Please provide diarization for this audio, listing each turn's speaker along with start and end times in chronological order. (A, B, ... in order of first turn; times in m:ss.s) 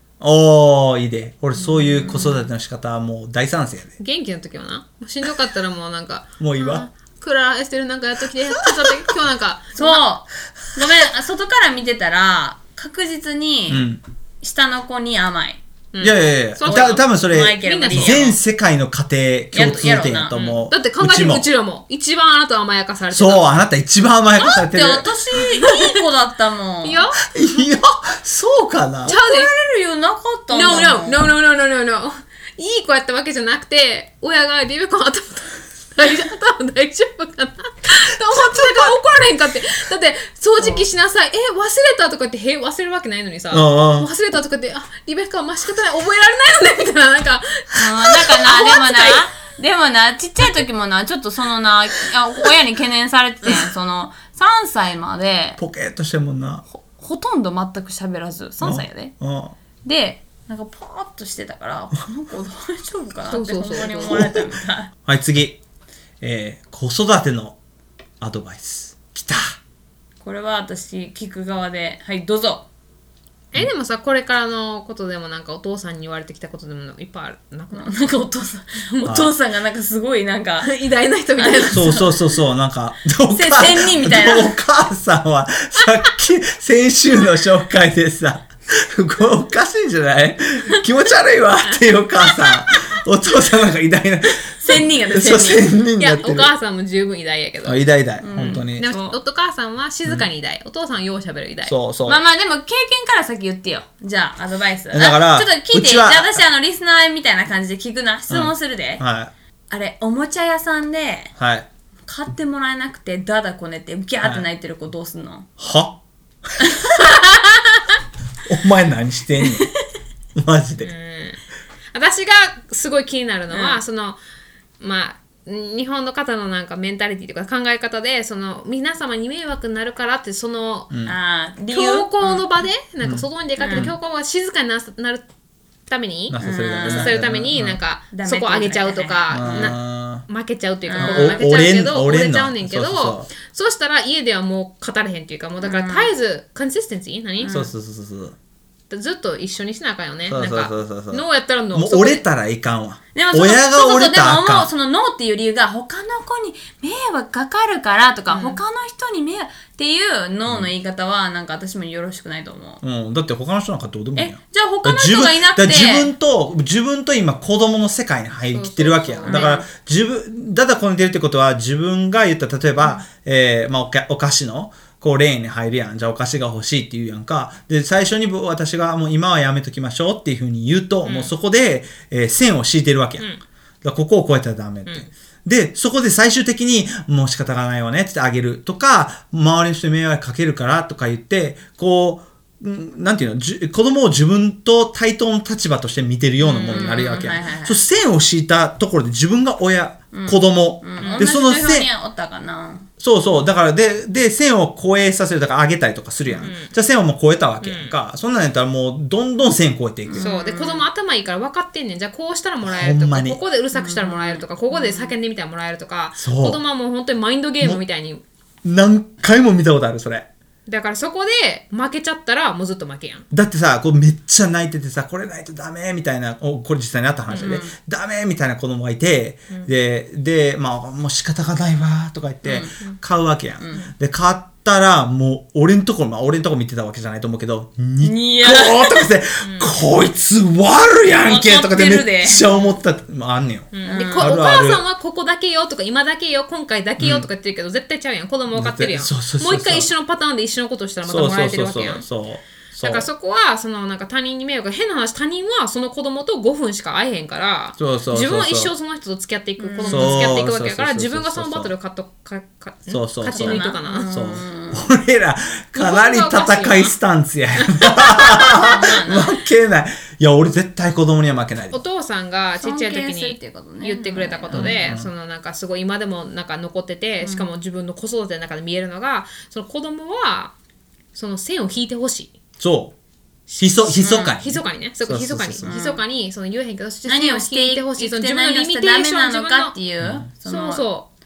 0:00.2-0:03.9 A
0:01.6-0:02.4 B
0:04.0-0:10.0 C
0:06.4-0:06.9 A
0:09.8-0:13.9 B
0:13.7-0:14.0 A
0:14.4-0:15.6 B
0:15.9-0:17.1 C
0:16.0-0:21.4 A
0:16.6-0:18.2 B
0:17.6-0:18.4 C
0:19.5-0:20.4 B
0:20.3-0:23.5 C
0:23.1-0:25.1 A
0:24.4-0:27.1 B
0:25.4-0:26.0 C
0:26.8-0:27.4 C
0:27.3-0:29.2 A
0:29.0-0:29.5 C
0:29.1-0:31.2 B
0:30.5-0:49.3 C
0:38.3-0:38.9 A
0:40.6-0:40.8 B
0:43.5-0:44.1 A
0:47.7-0:55.6 B
0:55.6-0:56.6 A
0:56.7-0:59.2 B
0:58.6-0:59.5 A
0:59.8-1:04.9 B
1:03.3-1:04.2 C
1:04.0-1:04.5 A
1:05.0-1:05.6 A
1:06.2-1:07.6 A
1:08.2-1:09.6 A
1:10.2-1:12.7 B
1:13.5-1:18.0 C
1:17.7-1:20.7 B
1:19.0-1:19.3 A
1:20.6-1:22.1 C
1:21.4-1:22.1 B
1:21.7-1:36.5 A
1:23.3-1:24.5 B
1:34.6-1:35.7 B
1:36.0-1:37.8 C
1:37.6-1:38.9 A
1:38.2-1:39.2 B
1:38.8-1:41.7 C
1:41.6-1:42.2 A
1:42.0-1:49.0 B
1:44.9-1:46.4 A
1:48.3-1:49.3 A
1:49.7-1:51.3 B
1:51.4-1:51.7 A
1:52.0-1:55.5 B
1:55.6-1:56.0 A
1:58.4-1:59.7 A
1:59.4-1:59.7 B
2:00.3-2:00.9 A
2:00.8-2:01.4 C
2:01.9-2:04.2 C
2:03.5-2:03.8 B
2:04.8-2:10.9 C
2:11.0-2:12.4 B
2:11.7-2:15.2 C
2:13.0-2:14.0 A
2:13.6-2:13.9 B
2:15.9-2:27.6 C
2:16.3-2:17.8 A
2:16.4-2:17.2 B
2:18.1-2:19.8 B
2:19.3-2:20.2 A
2:20.8-2:21.4 B
2:21.0-2:23.3 A
2:25.6-2:26.1 B
2:27.4-2:27.7 B
2:27.4-2:28.4 A
2:28.9-2:32.2 C
2:30.3-2:34.7 A
2:33.1-2:42.8 B
2:38.3-2:38.6 C
2:42.8-3:03.3 A
2:44.2-2:46.1 B
2:48.5-2:49.4 C
2:49.2-2:49.7 B
3:01.0-3:01.3 C
3:03.8-3:21.9 A
3:16.4-3:17.3 C
3:16.6-3:17.8 B
3:20.1-3:22.9 B
3:21.0-3:21.3 C
3:23.0-3:30.3 A
3:26.4-3:26.7 C
3:27.6-3:27.9 C
3:30.0-3:30.8 B
3:30.2-3:38.2 C
3:32.6-3:33.4 A
3:33.7-3:35.1 B
3:36.2-3:36.6 A
3:38.6-3:40.3 A
3:40.7-3:43.2 C
3:43.3-4:04.8 A
3:47.3-3:47.7 B
3:47.3-3:47.6 C
3:52.4-3:52.7 B
3:53.6-3:53.9 B
3:58.0-3:59.1 B
3:59.4-3:59.7 C
4:01.2-4:02.5 B
4:02.4-4:02.7 C
4:03.7-4:12.0 C
4:03.8-4:04.3 B
4:07.0-4:07.2 A
4:08.5-4:09.9 A
4:11.0-4:13.1 A
4:12.8-4:24.1 C
4:17.8-4:18.7 A
4:19.6-4:20.3 B
4:19.8-4:21.7 A
4:22.9-4:31.8 A
4:23.2-4:24.9 B
4:25.7-4:26.9 C
4:27.6-4:28.7 C
4:28.5-4:29.3 B
4:31.7-4:40.5 C
4:32.6-4:34.7 B
4:34.5-4:35.1 A
4:41.1-4:42.3 C
4:42.6-4:42.9 A
4:43.5-4:49.8 C
4:43.6-4:45.7 A
4:44.0-4:44.3 B
4:45.6-4:46.0 B
4:47.1-4:50.9 B
4:50.0-4:50.2 A
4:50.4-4:51.1 C